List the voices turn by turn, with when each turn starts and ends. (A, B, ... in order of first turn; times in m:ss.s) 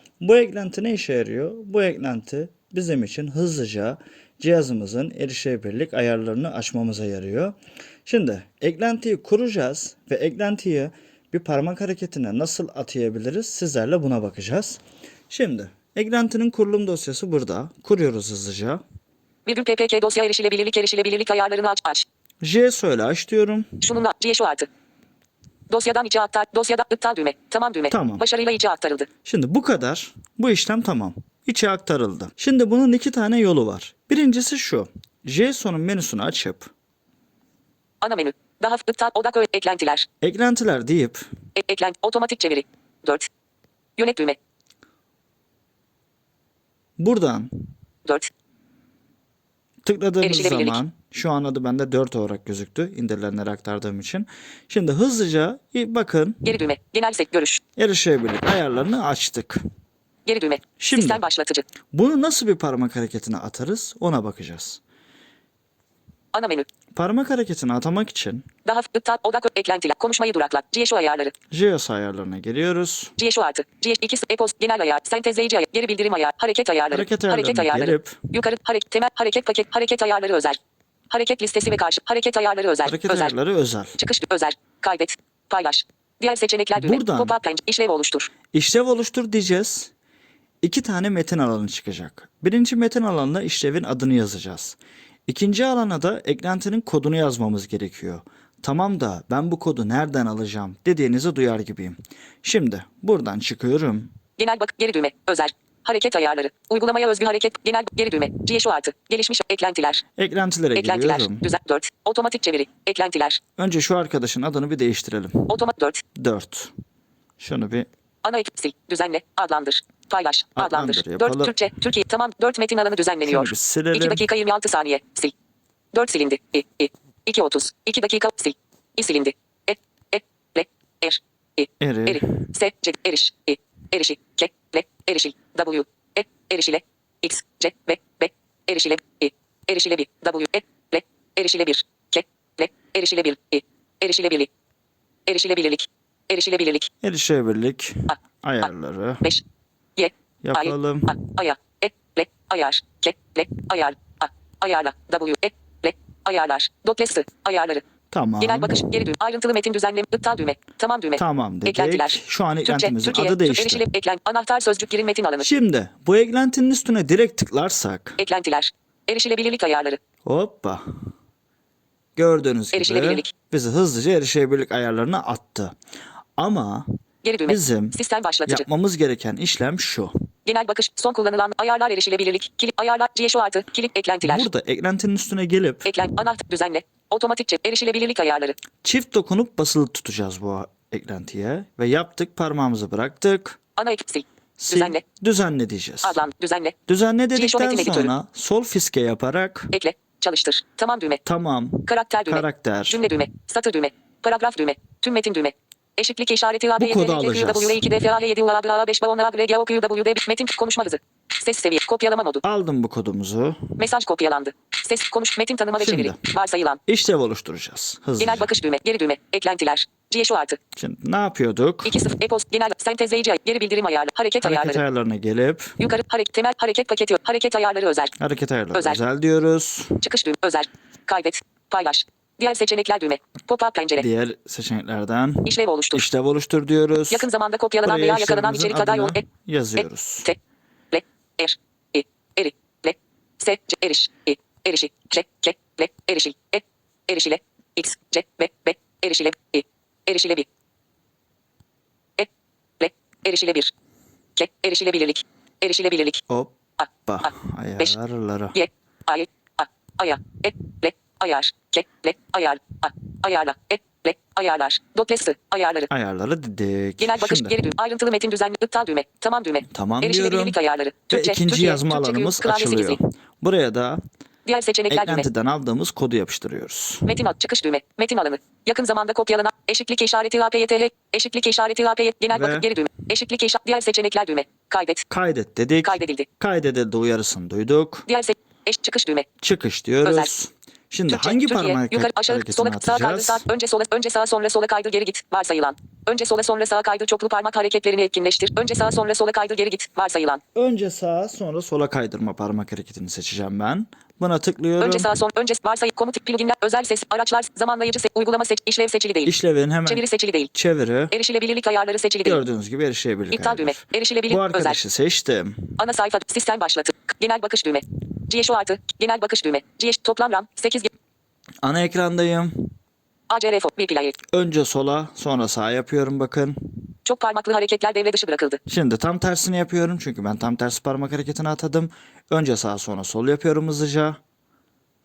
0:00.2-0:18.8 A
0:19.5-0:22.1 B
0:22.4-0:23.8 A
0:23.8-0:24.7 B
0:25.7-0:29.1 B
0:27.9-0:28.2 A
0:29.2-0:36.7 A
0:38.0-0:40.1 B
0:40.2-0:41.2 A
0:41.6-0:43.3 B
0:44.0-0:44.4 B
0:47.0-0:47.5 A
0:48.0-0:48.3 B
0:49.8-0:56.6 A
0:50.2-0:50.8 B
0:56.4-0:57.6 B
0:57.8-0:59.6 A
1:00.3-1:01.7 B
1:00.8-1:01.2 A
1:01.9-1:04.8 A
1:06.3-1:06.7 B
1:06.9-1:08.5 A
1:08.6-1:11.3 B
1:11.5-1:13.1 A
1:13.2-1:20.6 B
1:16.9-1:18.2 A
1:21.1-1:23.4 B
1:22.8-1:24.0 A
1:24.0-1:28.3 B
1:26.8-1:27.4 A
1:28.5-1:29.9 A
1:30.6-1:44.1 A
1:44.4-1:50.0 B
1:50.2-1:51.5 A
1:50.8-1:53.4 B
1:53.6-1:55.6 A
1:55.5-1:56.0 B
1:56.2-1:56.7 A
1:57.4-1:57.9 A
1:58.2-2:05.3 B
2:00.6-2:01.8 A
2:03.2-2:04.3 A
2:05.9-2:24.5 B
2:11.8-2:12.5 A
2:25.3-2:26.9 B
2:27.0-2:29.4 A
2:30.0-2:37.8 B
2:30.4-2:31.2 A
2:38.1-2:38.9 A
2:38.4-2:45.5 B
2:41.2-2:43.9 A
2:45.4-2:48.2 A
2:48.2-2:50.0 B
2:50.2-2:50.8 A
2:52.2-2:55.8 A
2:52.7-2:53.3 B
2:56.4-2:56.9 A
2:57.2-2:58.7 B
2:57.5-3:00.1 A
3:00.4-3:04.5 B
3:04.2-3:05.9 A
3:05.8-3:08.6 B
3:08.8-3:13.6 A
3:13.8-3:15.0 B
3:14.6-3:16.2 A
3:16.0-3:16.8 B
3:16.9-3:19.7 A
3:17.4-3:18.1 B
3:19.7-3:21.2 B
3:21.2-3:23.0 A
3:21.9-3:32.4 B
3:26.8-3:27.9 A
3:32.4-3:33.7 A
3:33.8-3:36.8 B
3:35.8-3:36.2 A
3:36.9-3:38.5 A
3:38.2-3:40.6 B
3:40.8-3:42.1 A
3:41.8-3:44.8 B
3:44.4-3:45.8 A
3:45.8-3:48.1 B
3:48.2-3:50.0 A
3:48.7-3:49.0 B
3:50.0-3:54.1 B
3:54.0-3:57.3 A
3:55.4-3:56.0 B
3:57.1-3:59.2 B
3:57.8-4:00.3 A
4:00.9-4:10.5 B
4:12.2-4:13.7 B
4:14.4-4:16.2 B
4:16.3-4:18.6 A
4:16.8-4:17.3 B
4:18.5-4:25.9 B
4:25.9-4:27.6 A
4:27.0-4:33.0 B
4:29.6-4:30.6 A
4:31.1-4:34.0 A
4:34.5-4:35.3 B
4:34.9-4:37.2 A
4:37.1-4:45.1 B
4:42.3-4:42.7 A
4:45.1-4:48.1 A
4:45.8-4:46.3 B
4:48.1-4:49.3 B
4:49.4-4:53.4 A
4:50.0-4:50.3 B
4:51.1-5:00.4 B
5:00.6-5:05.1 A
5:04.8-5:09.3 B
5:09.3-5:11.1 A
5:09.9-5:10.5 B
5:11.1-5:12.4 B
5:12.2-5:15.8 A
5:13.3-5:14.8 B
5:15.8-5:20.9 B
5:21.6-5:22.7 A
5:23.3-5:24.2 B
5:24.3-5:26.6 A
5:27.0-5:28.6 B
5:28.7-5:34.2 A